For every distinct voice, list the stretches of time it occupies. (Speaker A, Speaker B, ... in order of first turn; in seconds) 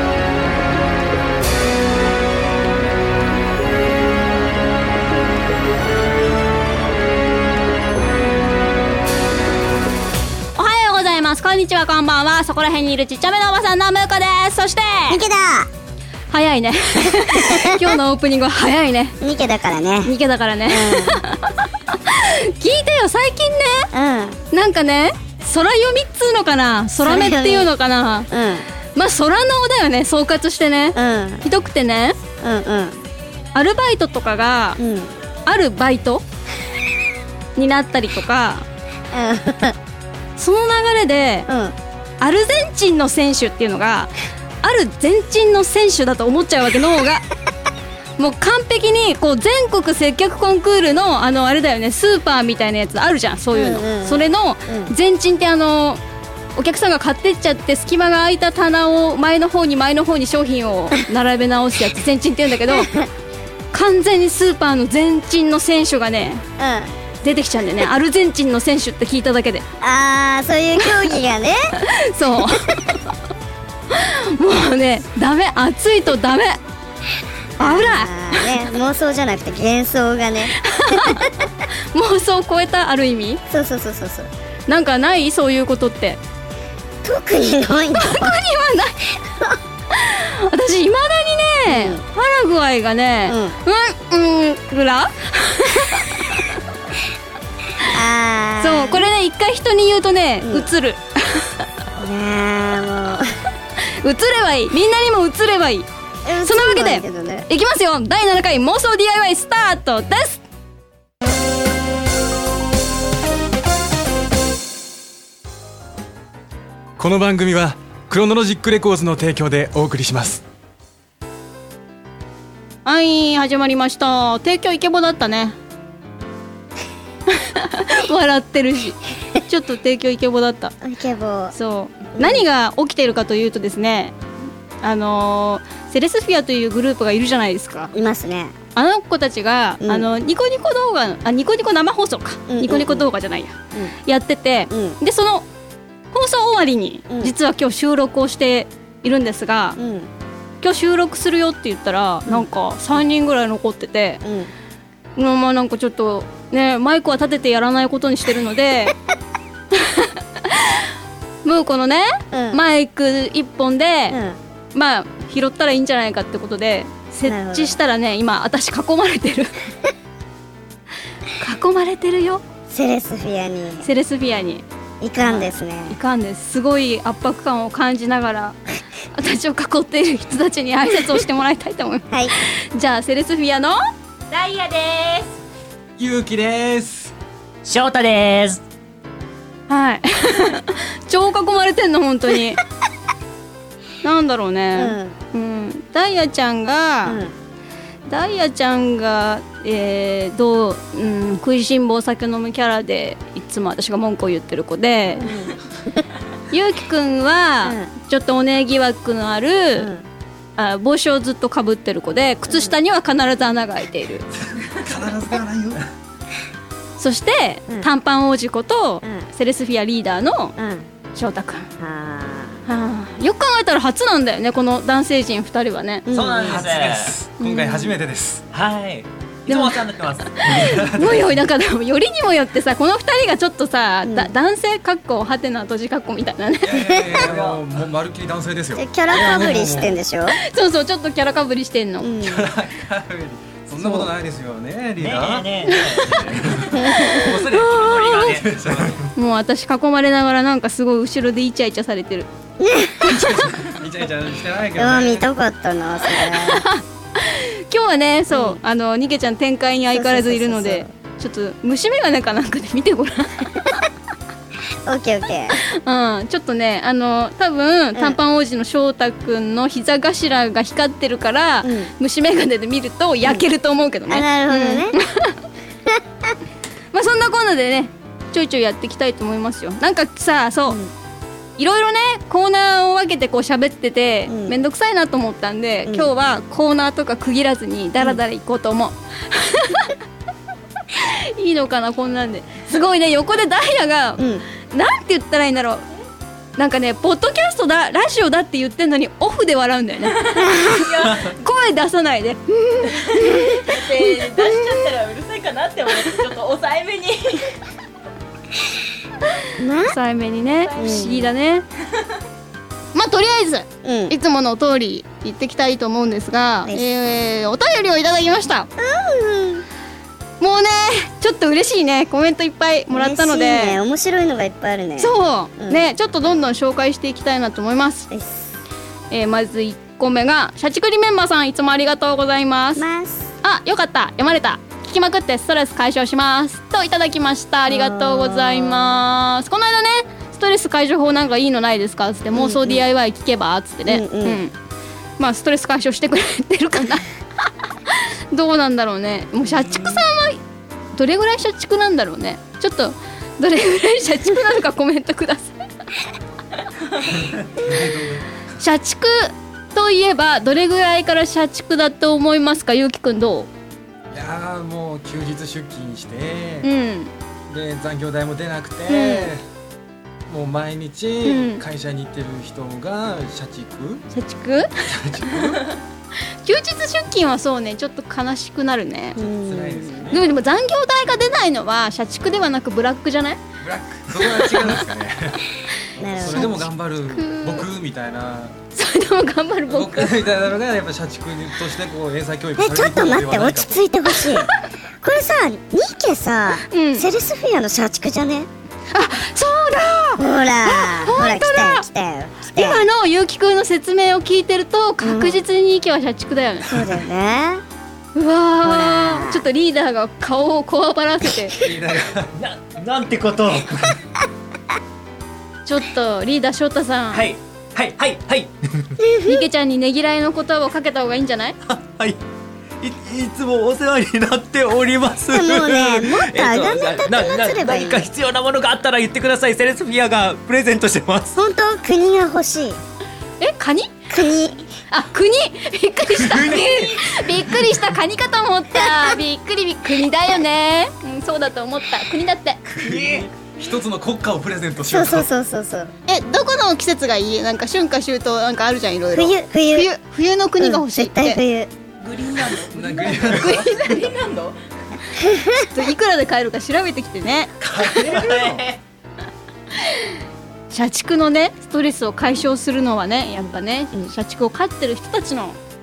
Speaker A: 10.6-15.2, 16.3-19.2, 20.1-23.9, 24.5-28.3, 28.9-32.2, 33.5-34.8, 35.5-36.2, 37.5-38.6, 40.4-41.5, 42.2-47.2, 48.2-56.0, 56.5-62.9, 63.7-66.4, 67.2-69.6, 71.8-73.0, 73.9-76.6, 77.6-78.5, 80.6-81.4, 81.9-83.4, 84.7-86.2, 88.0-89.1, 89.9-96.4, 98.6-101.5, 104.0-105.9, 106.4-110.4, 122.8-125.5, 127.3-130.7, 131.5-134.2, 134.8-137.9, 138.8-145.4, 146.1-149.8, 150.6-154.2, 155.2-158.9, 159.7-160.9, 161.4-164.2, 164.7-169.6, 171.4-172.4, 173.8-174.6, 175.2-178.6, 179.1-183.8, 189.7-192.6, 194.0-197.2, 198.1-205.3, 206.5-209.9, 210.6-214.2, 217.0-220.6, 221.1-221.7, 222.7-226.1, 227.4-227.9, 229.5-236.9, 240.3-242.1, 245.7-248.4, 249.2-252.3, 253.1-253.5, 256.1-263.9, 265.8-275.4, 276.9-280.8, 281.6-290.0, 290.9-295.8, 296.6-303.6, 309.9-311.6, 312.9-318.7, 320.4-323.8, 325.0-328.1, 329.1-332.8, 333.4-344.5, 345.2-347.1, 347.9-350.4, 350.9-355.6, 358.6-363.5, 366.6-367.1, 368.9-369.3, 371.2-371.6, 374.1-374.7, 376.4-379.2, 380.1-383.4, 384.2-384.8, 386.3-387.7, 388.7-390.2, 396.7-397.1, 398.9-401.8, 402.5-407.0, 408.1-411.6, 415.6-417.3, 419.2-421.6, 433.4-434.0, 434.9-442.6, 446.1-451.4, 453.4-454.1, 455.7-457.5, 460.7-465.6
Speaker B: 15.1-15.7, 17.2-17.9, 19.2-20.1, 20.7-21.2, 23.9-24.4, 27.0-27.7, 28.3-28.7, 30.9-31.4, 32.4-33.0, 34.8-35.1, 39.1-39.7, 41.5-41.8, 53.5-54.9, 62.7-63.1, 66.6-66.9, 69.8-71.7, 77.6-81.5, 83.5-84.3, 87.0-88.4, 91.7-92.0, 93.2-93.6, 97.9-99.0, 100.4-100.7, 102.0-103.3, 106.2-107.5, 130.8-131.6, 132.2-132.4, 137.9-138.5, 139.8-140.1, 142.5-143.1, 144.7-145.0, 149.8-150.1, 154.2-154.5, 162.3-162.6, 164.1-164.4, 167.2-167.8, 172.7-173.9, 175.0-176.0, 194.8-195.2, 197.1-197.3, 205.2-206.0, 207.6-207.9, 209.8-210.1, 212.5-212.8, 220.6-220.9, 221.8-222.6, 226.1-226.6, 234.1-234.3, 236.8-237.3, 238.8-240.4, 242.0-242.5, 243.8-244.1, 246.8-247.2, 252.6-253.1, 254.8-256.7, 258.3-258.6, 259.9-260.9, 264.9-265.6, 271.6-271.9, 274.1-275.0, 275.9-276.3, 284.3-284.6, 294.2-294.5, 300.4-300.7, 309.6-310.0, 310.8-311.3, 313.8-314.1, 318.8-319.7, 322.9-325.9, 328.1-328.5, 332.8-333.3, 337.7-339.0, 342.3-342.8, 343.9-344.4, 349.5-350.0, 379.2-380.1, 386.0-386.7, 392.6-394.5, 395.0-398.5, 400.2-402.9, 405.0-405.4, 406.7-407.6, 408.6-409.4, 419.0-419.4, 425.3-428.1, 431.4-432.8, 434.1-434.7, 444.8-445.9, 449.1-449.9, 450.6-451.7, 455.2-455.6, 463.4-464.1
Speaker C: 117.0-120.4, 186.0-187.1, 214.6-215.9, 226.4-228.4, 230.5-231.4, 236.6-240.0, 242.2-245.5, 246.0-247.5, 248.1-249.1, 253.1-255.3, 357.1-358.6, 364.1-366.7, 367.5-369.4, 370.3-374.0, 374.9-375.8, 379.2-380.2, 383.6-385.5, 386.1-388.6, 389.7-393.9, 411.6-412.3, 436.2-437.1, 442.7-445.3, 452.7-453.7, 457.8-458.6
Speaker D: 184.3-185.3, 300.3-301.3, 302.9-307.6, 310.5-311.0, 452.0-454.6
Speaker E: 187.6-188.6, 226.1-227.1, 228.5-230.7, 237.2-237.6, 245.0-248.9, 412.4-414.0, 417.1-418.9, 421.6-422.2, 422.8-431.4, 436.4-436.6, 442.8-443.2, 457.6-458.8